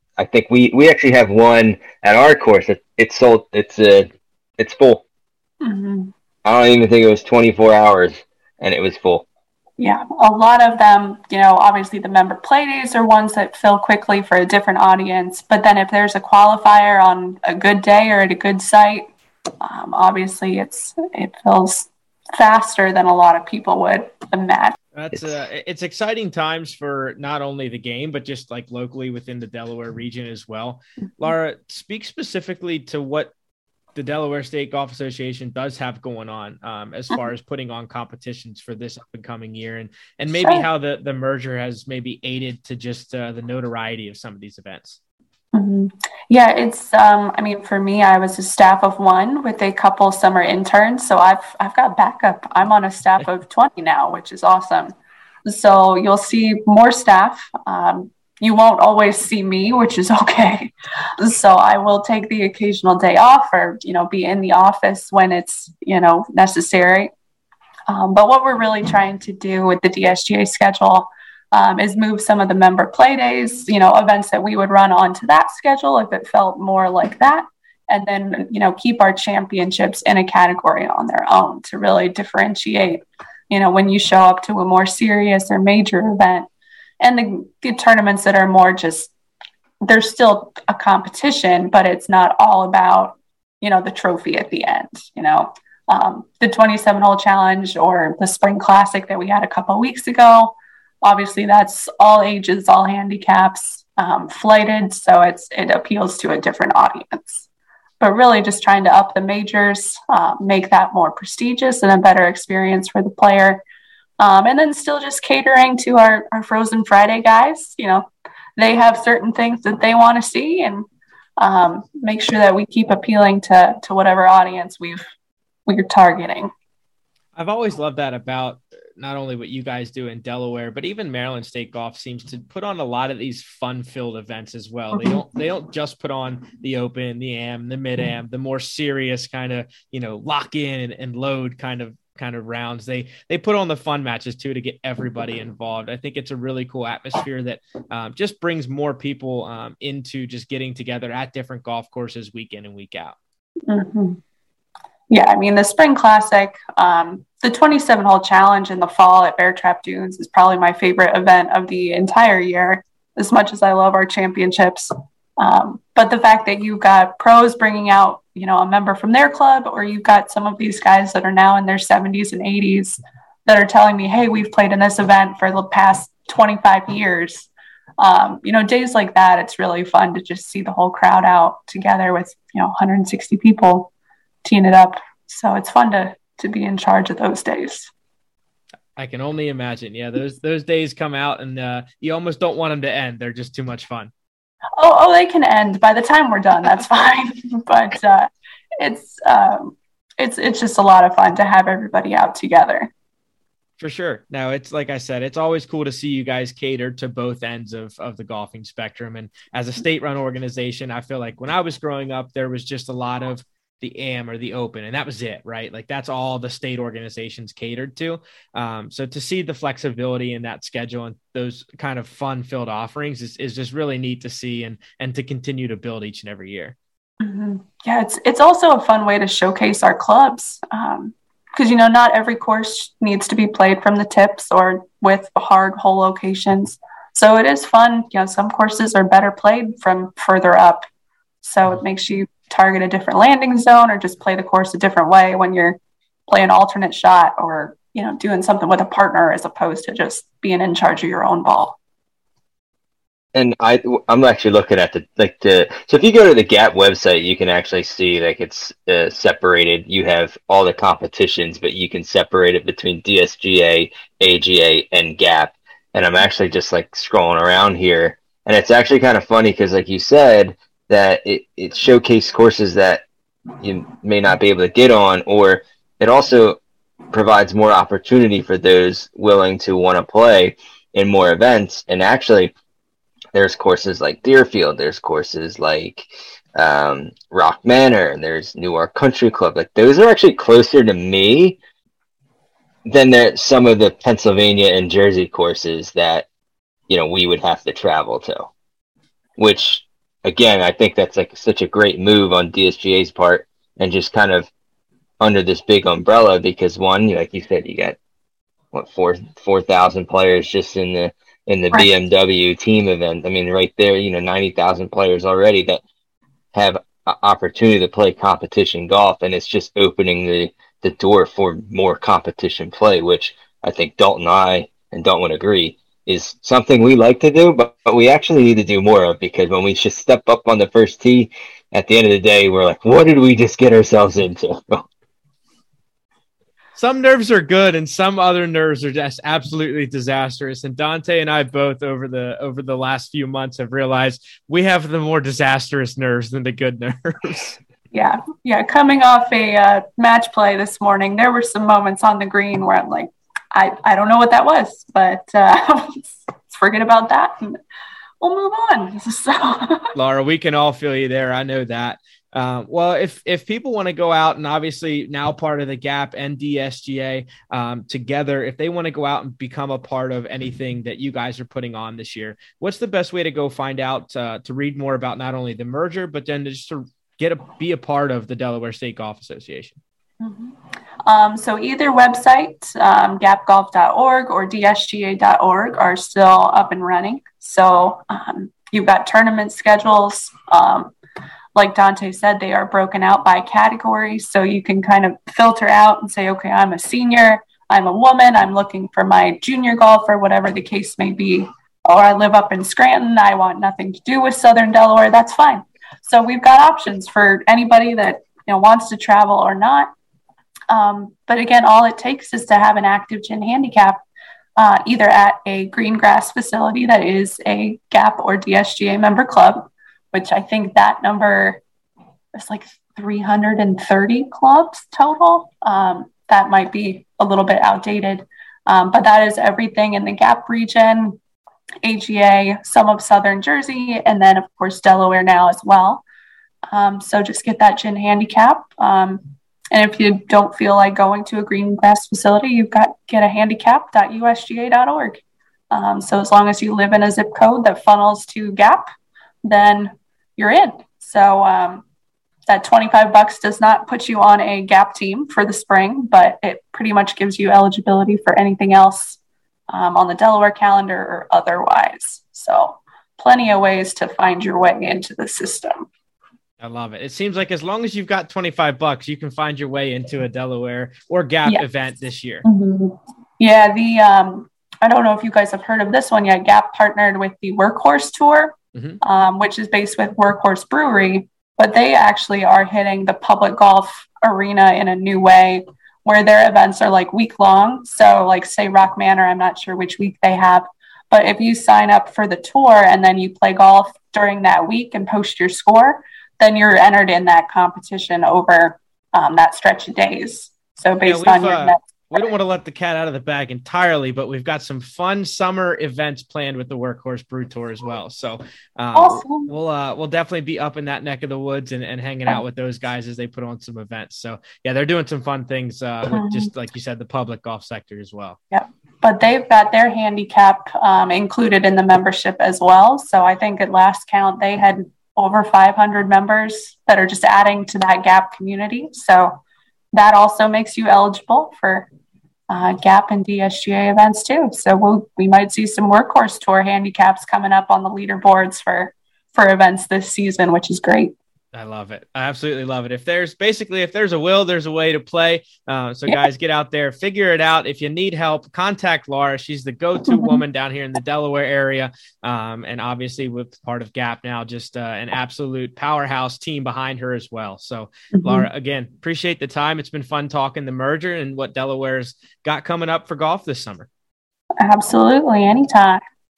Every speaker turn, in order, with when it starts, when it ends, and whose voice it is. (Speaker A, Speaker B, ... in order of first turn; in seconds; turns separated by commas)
Speaker A: 0.2-4.1, Speaker A: 4.6-5.0, Speaker B: 5.6-6.1, Speaker A: 6.5-9.3, Speaker B: 9.8-19.1, Speaker B: 19.6-24.8, Speaker C: 24.9-33.3, Speaker C: 34.0-45.0, Speaker B: 40.3-40.7, Speaker B: 45.5-55.0, Speaker B: 55.5-67.1, Speaker B: 67.9-86.5, Speaker B: 87.0-89.1, Speaker B: 89.8-107.5, Speaker B: 108.0-113.6, Speaker B: 114.2-120.8, Speaker B: 121.4-125.0, Speaker B: 125.7-126.5, Speaker C: 127.4-153.2, Speaker B: 134.9-135.2, Speaker B: 153.7-154.2, Speaker B: 155.1-183.9, Speaker B: 184.4-187.9, Speaker C: 189.0-194.1, Speaker B: 194.8-202.9, Speaker C: 203.8-226.8, Speaker B: 227.2-240.8, Speaker B: 241.4-251.8, Speaker A: 253.3-273.0, Speaker A: 273.6-276.6, Speaker A: 277.1-282.5, Speaker A: 283.3-291.6, Speaker A: 292.9-296.3, Speaker A: 296.9-298.5, Speaker A: 299.4-304.5, Speaker A: 305.2-308.0, Speaker A: 308.7-315.8, Speaker A: 316.5-334.9, Speaker C: 336.8-347.6, Speaker B: 347.9-357.6, Speaker B: 358.2-359.9, Speaker C: 359.9-379.8, Speaker B: 380.2-390.9, Speaker B: 391.6-409.9, Speaker B: 410.7-414.0, Speaker B: 414.6-421.6, Speaker B: 422.4-431.2, Speaker B: 431.8-436.0, Speaker B: 436.7-445.2, Speaker B: 445.7-448.9, Speaker B: 449.4-451.8, Speaker B: 452.5-459.2, Speaker B: 459.7-465.9, Speaker C: 466.6-472.4, Speaker B: 472.4-501.8, Speaker C: 478.8-479.0, Speaker C: 501.1-518.4, Speaker B: 508.9-509.5, Speaker B: 516.1-516.5, Speaker B: 518.5-529.4, Speaker B: 529.9-531.9, Speaker B: 532.5-541.1, Speaker C: 541.5-563.9, Speaker B: 550.1-550.4, Speaker B: 558.1-558.5, Speaker B: 564.6-566.0